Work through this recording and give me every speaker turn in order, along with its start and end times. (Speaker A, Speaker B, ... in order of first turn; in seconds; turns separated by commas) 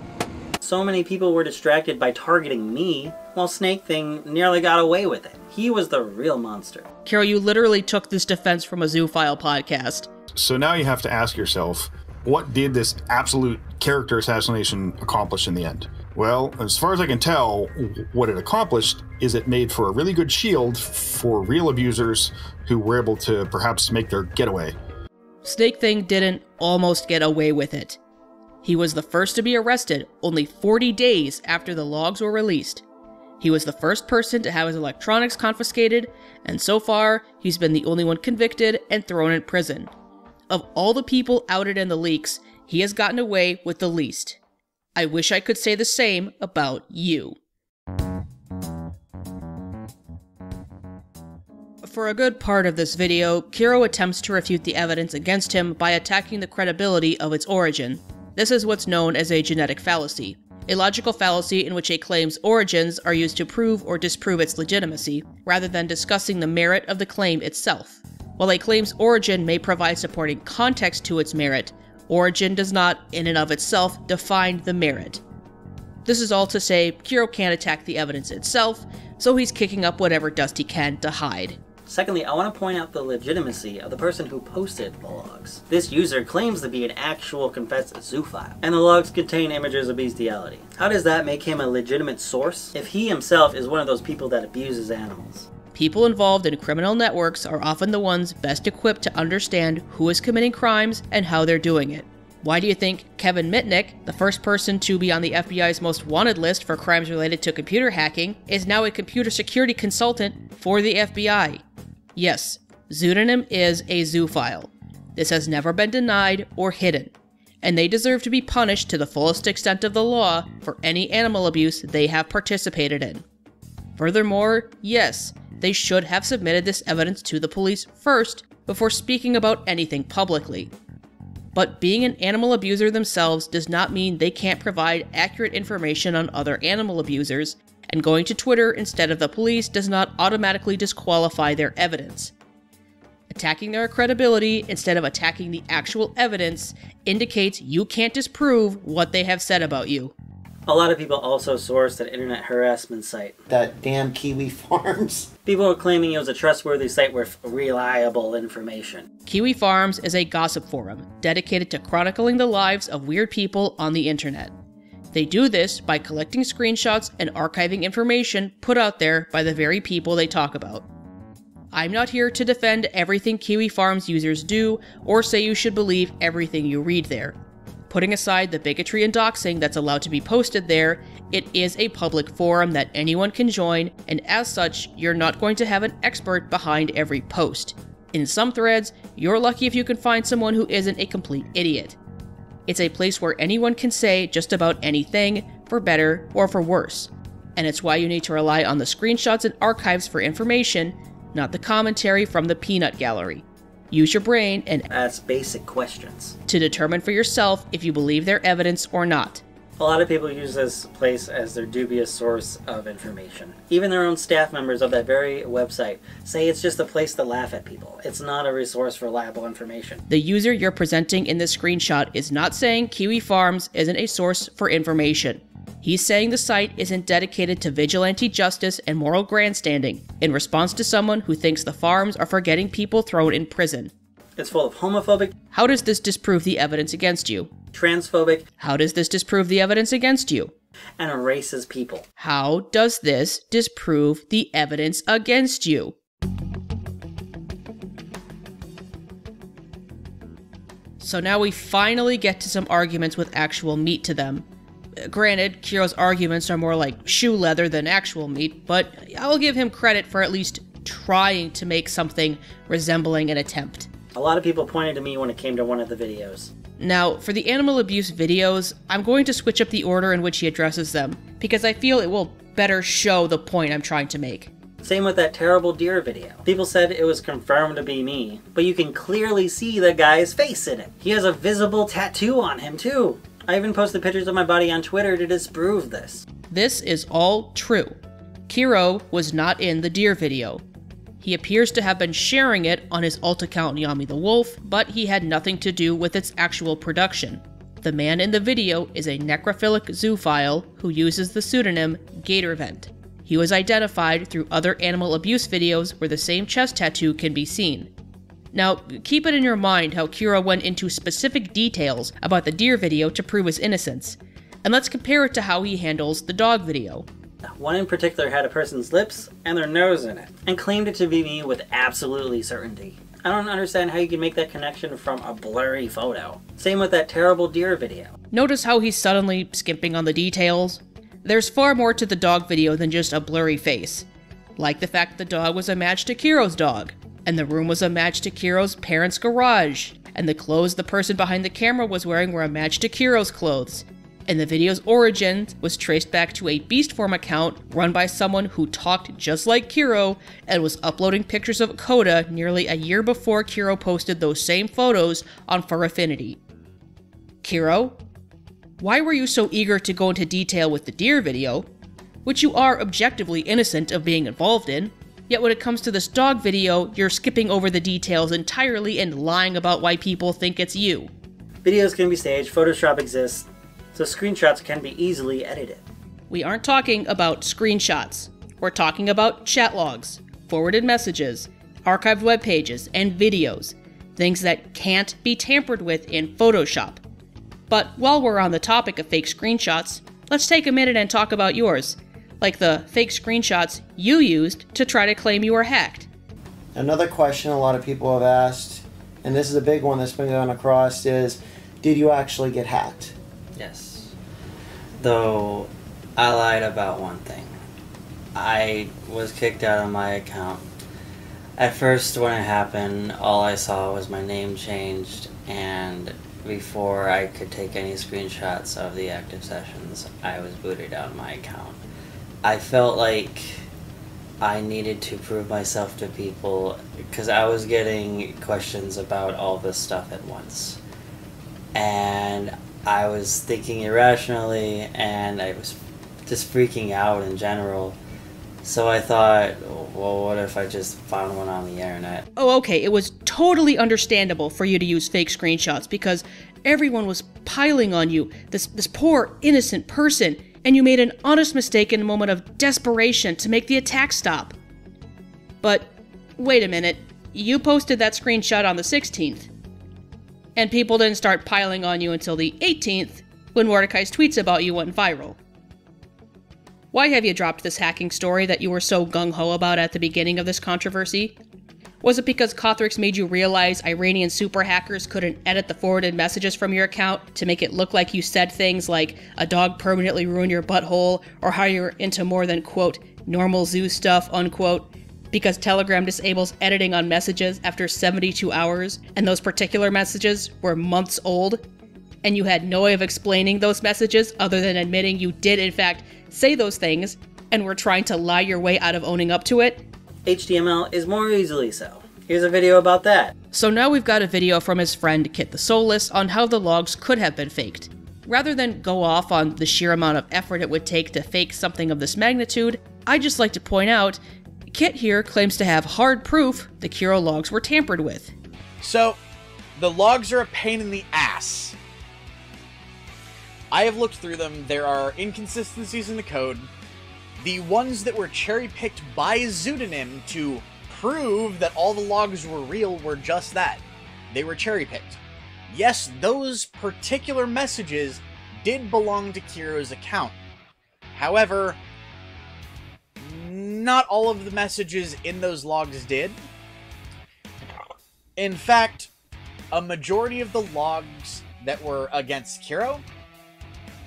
Speaker A: 0.6-6.8, Speaker B: 7.0-10.1, Speaker C: 10.3-24.7, Speaker B: 25.4-28.0, Speaker B: 28.6-32.8, Speaker B: 33.4-39.9, Speaker B: 40.5-44.4, Speaker B: 45.0-47.4, Speaker B: 51.8-75.2, Speaker B: 76.0-81.6, Speaker A: 81.8-95.5, Speaker B: 95.7-111.6, Speaker B: 112.2-123.2, Speaker B: 124.0-130.7, Speaker B: 131.5-142.3, Speaker B: 143.3-150.1, Speaker A: 150.7-153.4, Speaker D: 153.5-155.3, Speaker A: 155.4-159.1, Speaker B: 159.3-164.5, Speaker B: 165.1-170.8, Speaker B: 171.7-177.3, Speaker B: 177.9-192.0, Speaker B: 192.7-204.9, Speaker A: 204.9-206.4, Speaker B: 206.5-209.4, Speaker A: 209.8-220.0, Speaker B: 220.1-233.9, Speaker A: 234.4-235.3, Speaker B: 235.5-237.5, Speaker A: 237.7-238.4, Speaker B: 238.6-240.5, Speaker A: 241.0-242.1, Speaker B: 242.2-245.9, Speaker B: 251.0-254.4, Speaker B: 255.0-263.9, Speaker A: 264.1-266.5, Speaker B: 266.8-274.5, Speaker A: 274.8-286.2, Speaker B: 286.5-287.9, Speaker B: 288.5-290.6, Speaker B: 291.2-307.9, Speaker B: 308.5-317.1, Speaker A: 317.5-328.1, Speaker B: 328.3-334.1, Speaker B: 334.6-356.4, Speaker B: 357.4-358.0, Speaker B: 358.8-361.7, Speaker B: 362.2-371.1, Speaker A: 371.6-375.8, Speaker B: 376.3-387.0, Speaker B: 387.7-396.1, Speaker D: 396.7-403.1, Speaker E: 403.6-404.1, Speaker E: 405.0-407.5, Speaker E: 408.3-410.6, Speaker E: 411.6-421.8, Speaker E: 422.4-423.7, Speaker E: 424.4-430.8, Speaker E: 431.7-438.0, Speaker E: 438.6-442.2, Speaker B: 442.4-454.5, Speaker B: 455.6-459.5, Speaker B: 460.6-465.4, Speaker B: 466.9-471.3, Speaker B: 472.0-491.6, Speaker B: 492.2-499.8, Speaker A: 500.2-503.3, Speaker B: 503.5-518.3, Speaker F: 518.8-519.2, Speaker F: 519.8-521.7, Speaker F: 523.7-526.7, Speaker F: 527.4-540.4, Speaker F: 541.1-541.8, Speaker F: 543.2-546.3, Speaker F: 548.4-549.1, Speaker F: 549.7-553.0